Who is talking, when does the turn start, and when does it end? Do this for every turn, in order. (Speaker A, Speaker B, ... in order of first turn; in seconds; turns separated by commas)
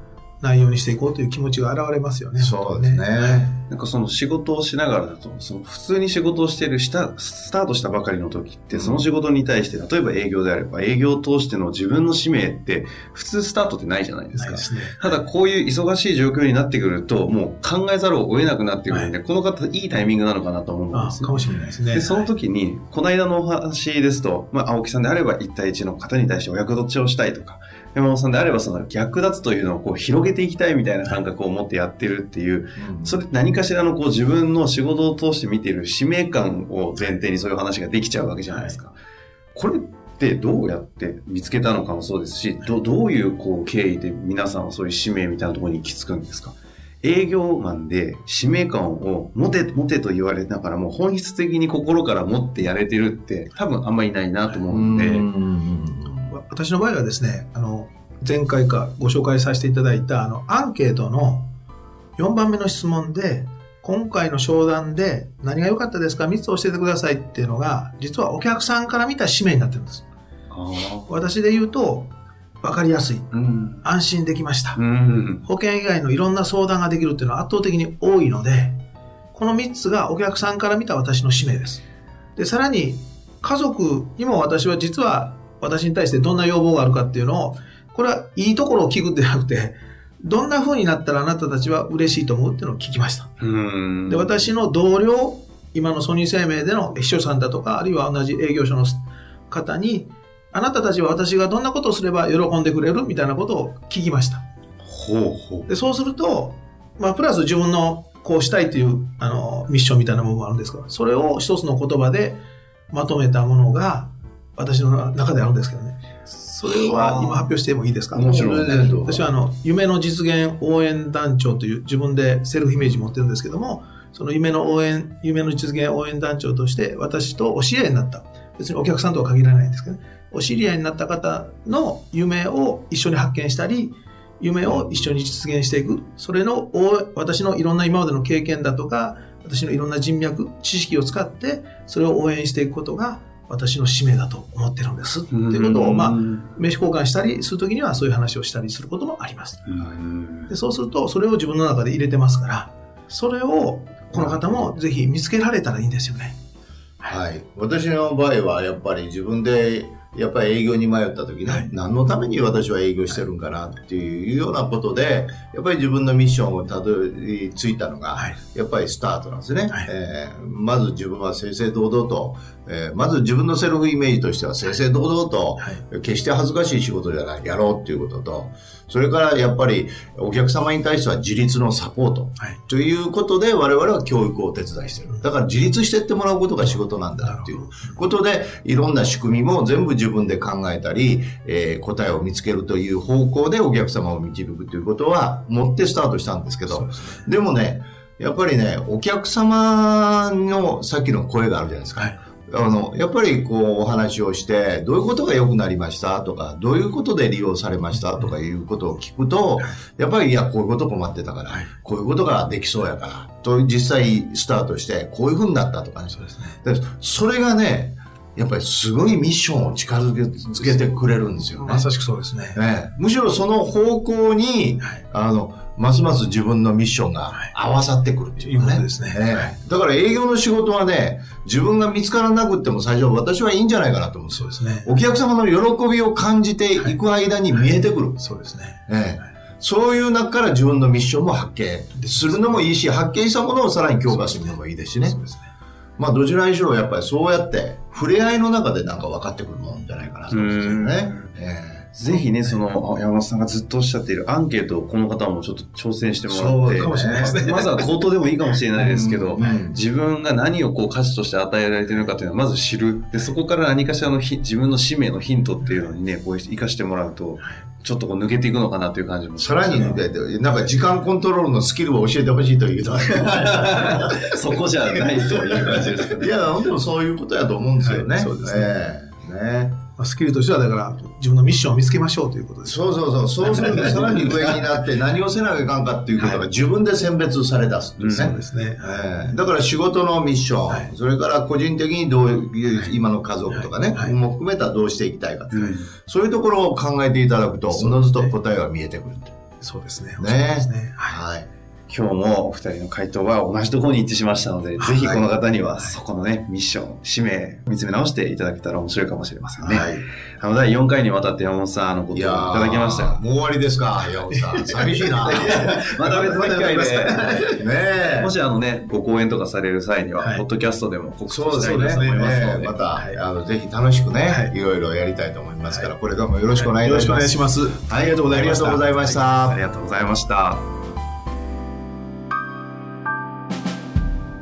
Speaker A: 0.4-3.6, Speaker B: 2.4-3.5, Speaker C: 3.7-38.9, Speaker B: 8.7-9.0, Speaker A: 14.3-15.2, Speaker A: 18.9-19.1, Speaker A: 20.9-22.3, Speaker B: 32.8-33.2, Speaker C: 39.5-55.3, Speaker B: 54.7-56.3, Speaker A: 56.3-61.5, Speaker A: 62.2-70.0, Speaker C: 70.5-71.1, Speaker A: 71.1-73.3, Speaker C: 73.3-73.8, Speaker A: 73.8-74.8, Speaker C: 74.8-75.4, Speaker A: 75.4-78.8, Speaker A: 79.3-81.8, Speaker A: 82.3-93.3, Speaker C: 93.4-94.3, Speaker A: 94.1-104.4, Speaker C: 104.8-105.7, Speaker A: 105.7-149.7, Speaker B: 116.6-117.5, Speaker C: 118.1-119.1, Speaker B: 118.2-119.3, Speaker B: 134.6-135.1, Speaker C: 145.3-146.5, Speaker C: 149.7-150.5, Speaker A: 150.5-156.3, Speaker B: 154.1-154.7, Speaker B: 157.0-221.9, Speaker A: 175.6-175.8, Speaker A: 186.6-188.0, Speaker A: 196.7-197.3, Speaker A: 207.9-208.3, Speaker A: 211.5-211.7, Speaker A: 216.1-216.6, Speaker A: 221.6-222.6, Speaker B: 222.5-238.2, Speaker A: 228.4-229.6, Speaker A: 234.3-234.9, Speaker A: 238.2-239.3, Speaker B: 238.9-245.2, Speaker A: 241.9-242.7, Speaker A: 244.1-245.5, Speaker B: 246.0-251.9, Speaker C: 250.3-251.3, Speaker C: 251.9-270.0, Speaker A: 252.1-252.5, Speaker B: 256.3-257.4, Speaker A: 256.7-257.8, Speaker B: 258.8-259.8, Speaker A: 265.7-265.9, Speaker B: 269.4-274.3, Speaker C: 273.1-276.3, Speaker B: 274.8-279.8, Speaker A: 277.8-278.8, Speaker A: 280.0-284.3, Speaker B: 282.6-299.3, Speaker A: 286.2-286.4, Speaker C: 288.0-288.4, Speaker A: 288.1-289.3, Speaker A: 292.7-294.1, Speaker C: 295.5-295.9, Speaker A: 297.7-298.3, Speaker A: 299.6-301.2, Speaker B: 300.2-301.5, Speaker C: 301.9-313.2, Speaker B: 304.8-305.2, Speaker B: 309.6-310.1, Speaker B: 312.1-318.3, Speaker A: 314.3-315.7, Speaker C: 315.2-317.6, Speaker A: 316.4-317.4, Speaker C: 318.1-322.8, Speaker A: 320.2-320.4, Speaker B: 321.3-329.6, Speaker A: 321.6-322.2, Speaker A: 322.9-323.2, Speaker A: 324.3-324.5, Speaker A: 326.6-329.2, Speaker C: 329.4-330.7